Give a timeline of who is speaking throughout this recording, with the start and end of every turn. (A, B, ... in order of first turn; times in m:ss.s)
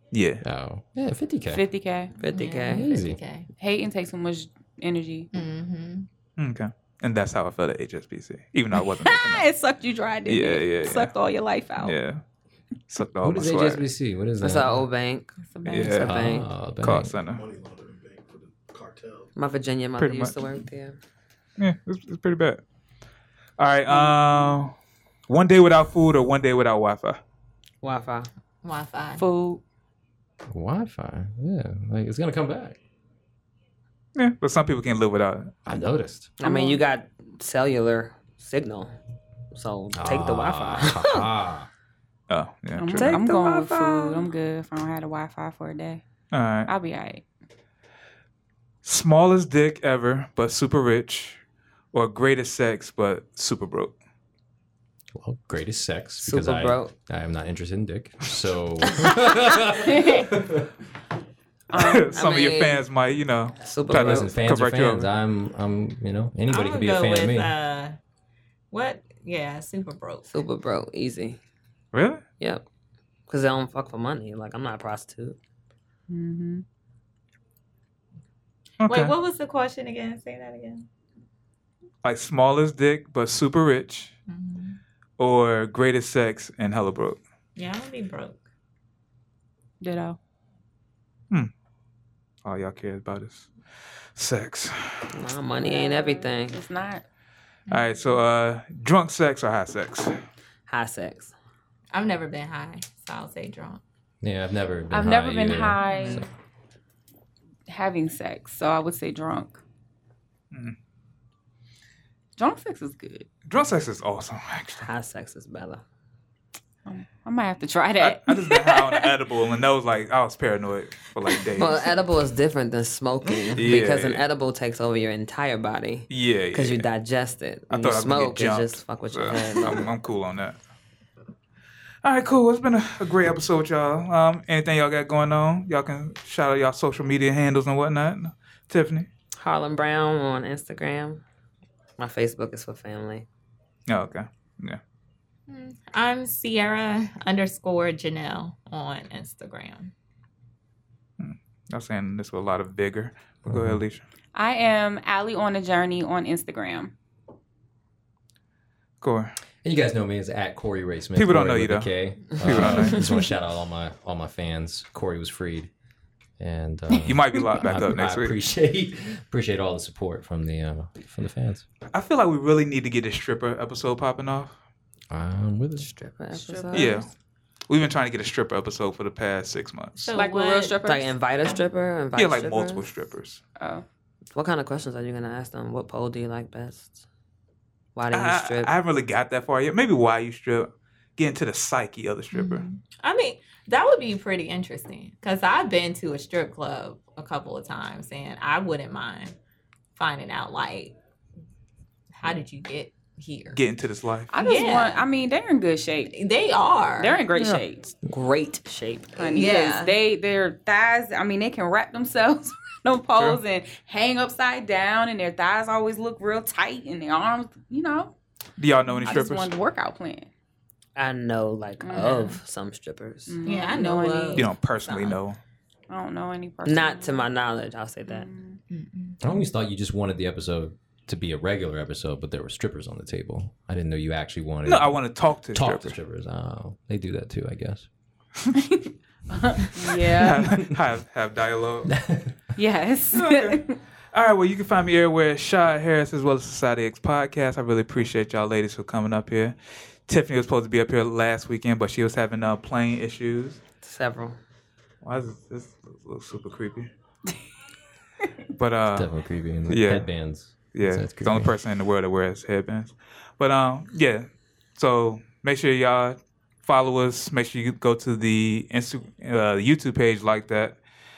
0:00.1-0:00.4 A
0:00.4-0:01.6 B
0:01.5-0:02.1 C
0:02.2-0:02.9 D
0:02.3-0:03.5 E
0:02.7-0:03.2 B
0:03.6-0:05.3 C
0:05.3-0:06.1 E
0:06.4-0:09.5 A
0:08.7-0:12.0 C
0:10.2-0:11.1 A
0:11.8-0:12.2 A
0:12.9-0:13.8 A
0:13.2-0:14.8 B
0:14.4-0:16.5 D
0:15.4-0:16.3 C
0:15.6-0:16.1 A
0:16.0-0:17.1 B
0:16.8-0:17.4 A
0:17.3-0:19.3 F
0:19.4-0:21.0 D
0:20.0-0:20.3 A
0:21.6-0:22.6 A
0:23.6-0:24.7 A
0:23.9-0:24.5 C
0:25.3-0:27.2 A
0:27.8-0:28.3 D
0:28.6-0:29.3 E
0:29.2-0:29.6 C
0:30.5-0:32.8 B
0:34.2-0:35.5 A
0:35.6-0:36.3 B
0:36.4-0:38.9 D
0:36.4-0:36.8 C
0:39.5-0:41.2 D
0:39.9-0:41.7 B
0:42.3-0:43.1 A
0:42.7-0:46.0 C
0:43.0-0:44.3 D
0:46.3-0:46.7 A
0:46.6-0:47.2 C
0:48.8-0:51.4 A
0:51.9-0:53.9 A
0:55.2-1:00.7 B
0:56.2-0:56.9 D
0:59.9-1:00.3 C
1:01.7-1:02.2 C
1:01.7-1:05.0 A
1:02.1-1:02.8 D
1:03.6-1:04.3 D
1:03.9-1:07.5 B
1:06.5-1:08.0 E
1:08.7-1:10.3 E
1:10.3-1:11.4 D
1:11.9-1:12.2 A
1:12.4-1:12.6 D
1:13.3-1:15.4 D
1:16.1-1:16.6 C
1:18.8-1:19.1 A
1:18.9-1:20.8 E
1:22.0-1:24.1 A
1:24.3-1:24.8 E
1:25.2-1:27.2 A
1:27.6-1:28.4 E
1:29.8-1:30.2 C
1:32.4-1:33.5 A
1:34.2-1:35.1 A
1:35.1-1:36.6 D
1:35.6-1:37.0 C
1:37.7-1:38.2 E
1:37.7-1:40.2 A
1:40.7-1:41.3 D
1:41.9-1:43.8 E
1:44.2-1:46.3 B
1:44.9-1:46.3 C
1:47.7-1:49.6 C
1:52.4-1:53.3 C
1:53.5-1:54.8 A
1:54.8-1:55.8 D
1:56.8-1:59.1 C
1:58.0-2:01.9 A
2:01.6-2:09.8 D
2:03.6-2:04.2 A
2:06.1-2:06.8 A
2:07.7-2:10.6 A
2:12.0-2:19.1 A
2:19.4-2:21.2 D
2:22.0-2:23.2 D
2:23.9-2:24.8 A
2:25.5-2:29.9 E
2:31.2-2:34.0 A
2:33.4-2:33.8 B
2:34.3-2:36.9 C
2:39.0-2:39.3 A
2:39.6-2:45.7 B
2:41.1-2:43.1 A
2:46.4-2:51.6 B
2:47.0-2:48.3 A
2:51.9-2:54.5 A
2:55.1-2:55.9 B
2:55.8-2:57.0 D
2:56.3-2:57.1 C
2:56.7-2:57.1 A
2:57.7-3:00.0 A
3:00.0-3:00.8 E
3:00.0-3:01.6 C
3:00.1-3:02.8 D
3:02.2-3:03.4 A
3:03.6-3:03.8 C
3:04.3-3:07.0 D
3:07.9-3:08.7 D
3:08.1-3:12.6 A
3:12.3-3:19.3 E
3:20.0-3:20.9 E
3:22.2-3:23.6 E
3:23.5-3:24.3 A
3:24.3-3:26.1 C
3:24.4-3:25.0 E
3:26.1-3:27.2 E
3:27.0-3:27.9 C
3:27.4-3:29.1 D
3:29.2-3:29.9 E
3:29.2-3:38.1 C
3:38.6-3:39.5 A
3:39.0-3:40.3 C
3:41.0-3:43.4 D
3:41.8-3:42.4 C
3:43.3-3:44.5 C
3:43.4-3:45.2 E
3:44.3-3:45.4 A
3:45.9-3:47.3 C
3:46.6-3:48.3 D
3:48.1-3:48.6 C
3:48.7-3:49.4 E
3:49.2-3:57.9 B
3:54.6-3:55.9 A
3:58.6-4:00.7 C
4:00.0-4:01.9 A
4:01.9-4:02.3 B
4:02.6-4:03.8 C
4:03.1-4:09.6 A
4:10.1-4:13.6 A
4:13.8-4:14.4 D
4:15.0-4:16.9 A
4:18.6-4:19.1 A
4:18.9-4:21.5 B
4:19.7-4:20.0 A
4:20.7-4:30.8 A